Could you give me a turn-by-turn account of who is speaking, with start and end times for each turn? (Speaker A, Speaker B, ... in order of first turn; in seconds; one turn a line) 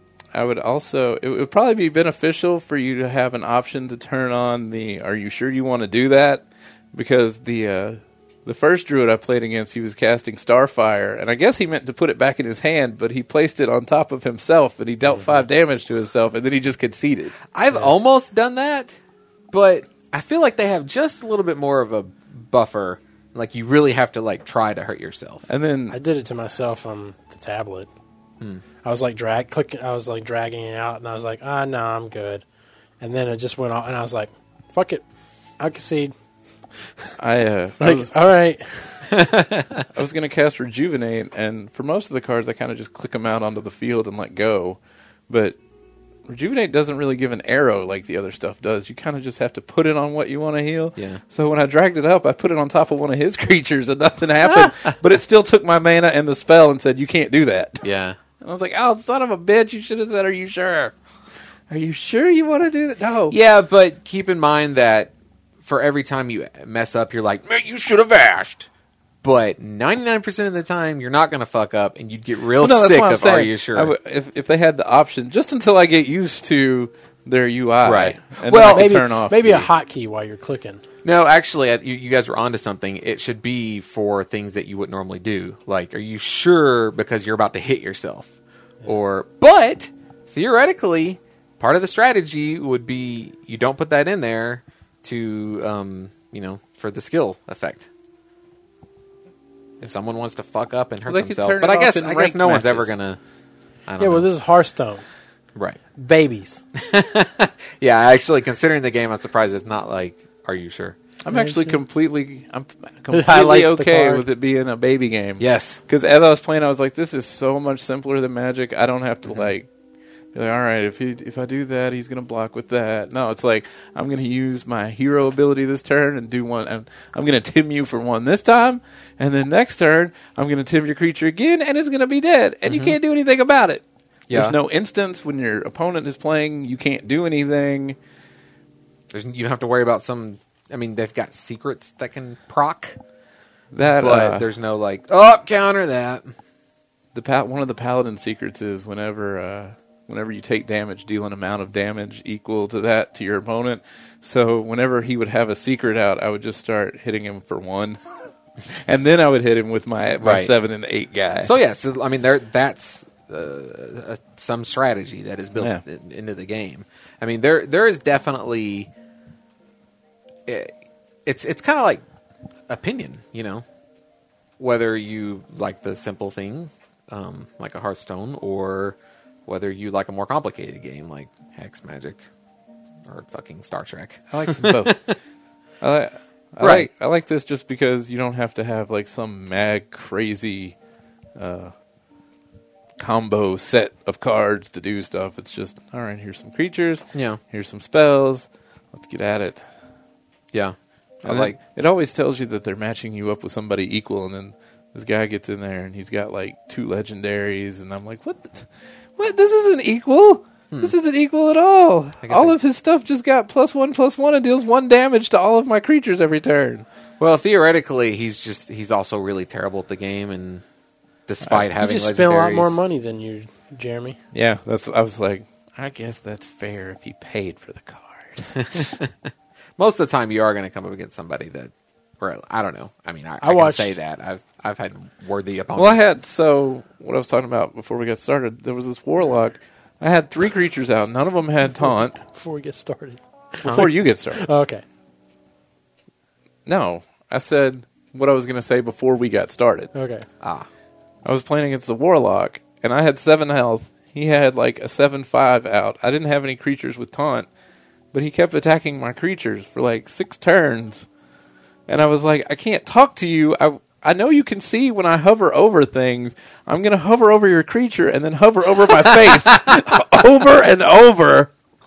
Speaker A: 0.3-17.4
Speaker B: 17.5-18.9
Speaker B: 19.5-25.5
Speaker A: 25.5-26.0
Speaker C: 25.9-27.9
Speaker C: 28.8-32.4
Speaker C: 33.0-35.0
Speaker C: 35.6-36.1
Speaker A: 37.2-38.1
Speaker C: 37.8-39.2
Speaker B: 39.1-39.8
Speaker A: 39.9-45.6
Speaker A: 46.3-57.9
Speaker B: 51.0-51.2
Speaker B: 54.4-55.0
Speaker B: 57.8-58.2
Speaker A: 58.4-61.0
Speaker A: 61.7-63.4
Speaker B: 63.3-65.1
Speaker B: 65.6-68.7
Speaker B: 69.2-73.9
Speaker A: 72.6-79.7
Speaker B: 77.8-78.9
Speaker C: 78.6-80.8
Speaker B: 81.0-88.3
Speaker B: 88.8-97.9
Speaker B: 99.8-103.2
Speaker A: 101.1-103.0
Speaker B: 103.9-104.3
Speaker C: 104.0-105.0
Speaker C: 106.0-106.6
Speaker B: 106.8-111.0
Speaker A: 111.2-119.7
Speaker C: 111.3-111.8
Speaker C: 113.1-114.2
Speaker B: 115.4-115.8
Speaker A: 120.3-138.0
Speaker B: 132.7-133.0
Speaker B: 134.3-134.6
Speaker B: 139.1-143.0
Speaker A: 143.7-144.5
Speaker B: 144.0-146.3
Speaker A: 147.1-158.0
Speaker A: 158.7-161.5
Speaker B: 160.2-160.5
Speaker B: 161.4-168.9
Speaker A: 165.6-165.8
Speaker B: 170.5-170.7
Speaker B: 171.3-172.0
Speaker B: 172.7-173.7
Speaker B: 174.6-182.2
Speaker B: 183.1-185.2
Speaker A: 184.3-185.0
Speaker A: 185.8-190.8
Speaker B: 186.6-186.9
Speaker A: 191.4-191.7
Speaker A: 193.0-199.7
Speaker B: 197.1-197.4
Speaker B: 200.5-201.6
Speaker A: 201.2-216.9
Speaker B: 212.2-212.6
Speaker B: 217.2-220.6
Speaker B: 221.3-222.7
Speaker C: 221.8-224.2
Speaker A: 224.3-228.9
Speaker B: 228.6-229.1
Speaker B: 229.8-236.0
Speaker C: 233.4-234.0
Speaker A: 235.8-242.2
Speaker C: 241.8-244.8
Speaker B: 243.6-243.9
Speaker A: 243.7-244.5
Speaker A: 246.7-249.9
Speaker C: 249.9-250.3
Speaker B: 250.4-250.7
Speaker A: 251.2-257.5
Speaker A: 258.1-261.1
Speaker A: 261.9-271.5